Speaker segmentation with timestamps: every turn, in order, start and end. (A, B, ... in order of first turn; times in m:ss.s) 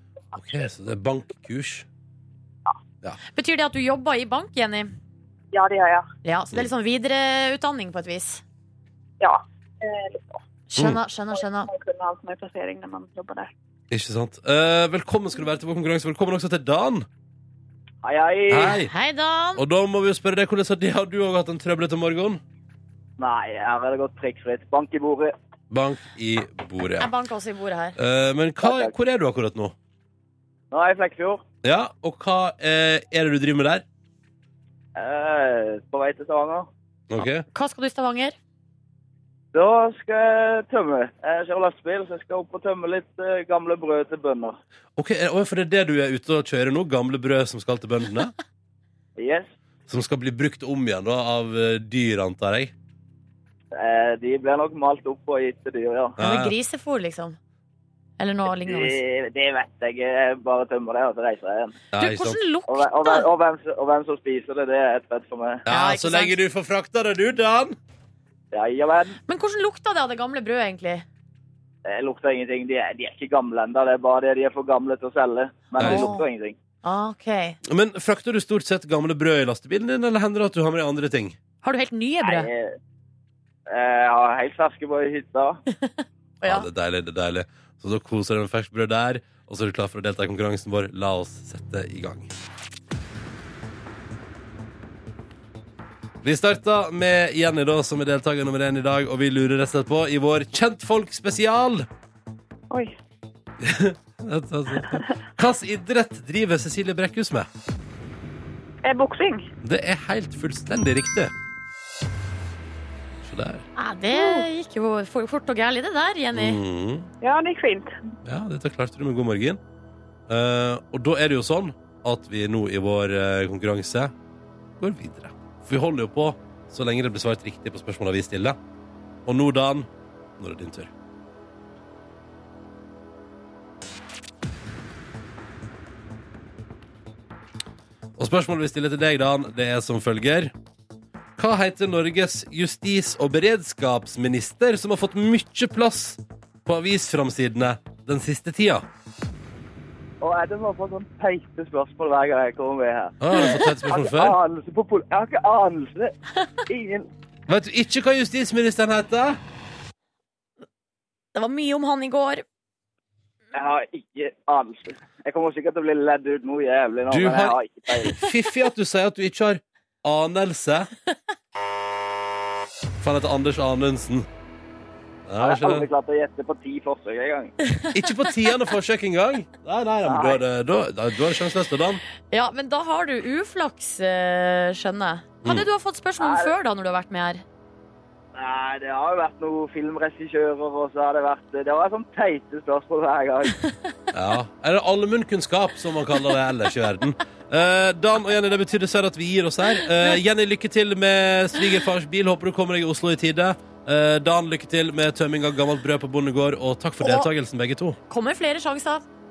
0:00.3-0:01.9 A
0:03.3-0:04.9 B
0:05.5-0:06.1 C
0:06.2-0:08.4 B
0:09.2-0:10.4 C
0:10.7-0:11.7 B
0:11.4-0:13.5 C
0:13.9-0:17.1 A
0:18.0-0:18.8 D
0:18.5-0:18.9 A
0:18.8-0:19.6 B
0:19.6-0:22.4 A
0:23.2-0:25.3 D
0:25.7-0:27.1 A
0:27.0-0:28.0 B
0:28.0-0:29.8 A
0:28.6-0:28.9 D
0:30.7-0:31.4 D
0:31.6-0:33.8 A
0:35.0-0:36.7 D
0:37.1-0:37.4 A
0:37.2-0:38.4 B
0:39.5-0:44.6 D
0:45.0-0:48.3 A
0:49.2-0:49.5 D
0:49.9-0:52.7 A
0:53.7-0:56.2 D
0:56.2-0:56.6 A
0:56.2-0:57.4 B
0:58.2-0:59.0 B
0:58.6-1:01.8 D
1:01.9-1:02.4 A
1:02.0-1:03.3 B
1:02.7-1:05.6 D
1:05.7-1:07.8 A
1:05.7-1:06.4 B
1:08.5-1:09.2 D
1:09.3-1:11.1 B
1:11.9-1:16.6 D
1:15.8-1:16.1 A
1:15.8-1:16.2 B
1:16.8-1:17.6 B
1:17.6-1:21.4 A
1:21.6-1:22.5 B
1:22.2-1:22.8 D
1:23.7-1:25.6 D
1:26.4-1:26.7 B
1:26.4-1:32.3 A
1:36.2-1:41.9 A
1:43.6-1:47.5 A
1:48.8-1:49.5 C
1:49.6-1:51.3 A
1:53.2-1:53.6 A
1:53.8-1:56.6 B
1:54.1-1:54.4 C
1:56.3-1:57.1 A
1:57.2-1:58.0 C
1:58.2-1:59.6 A
2:00.3-2:04.1 A
2:04.8-2:08.6 A
2:09.3-2:10.9 A
2:18.2-2:20.5 A
2:21.4-2:28.9 A
2:30.2-2:37.1 D
2:33.2-2:34.4 A
2:37.5-2:39.4 A
2:41.4-2:42.4 B
2:43.5-2:48.2 D
2:47.1-2:50.9 A
2:53.0-2:54.3 A
2:55.3-2:55.9 A
2:55.4-2:57.5 D
2:57.6-2:58.4 B
2:57.9-3:02.0 A
3:00.0-3:00.4 D
3:02.3-3:07.4 B
3:06.2-3:06.5 D
3:08.4-3:13.6 D
3:14.1-3:28.0 A
3:27.0-3:27.3 B
3:28.1-3:29.0 B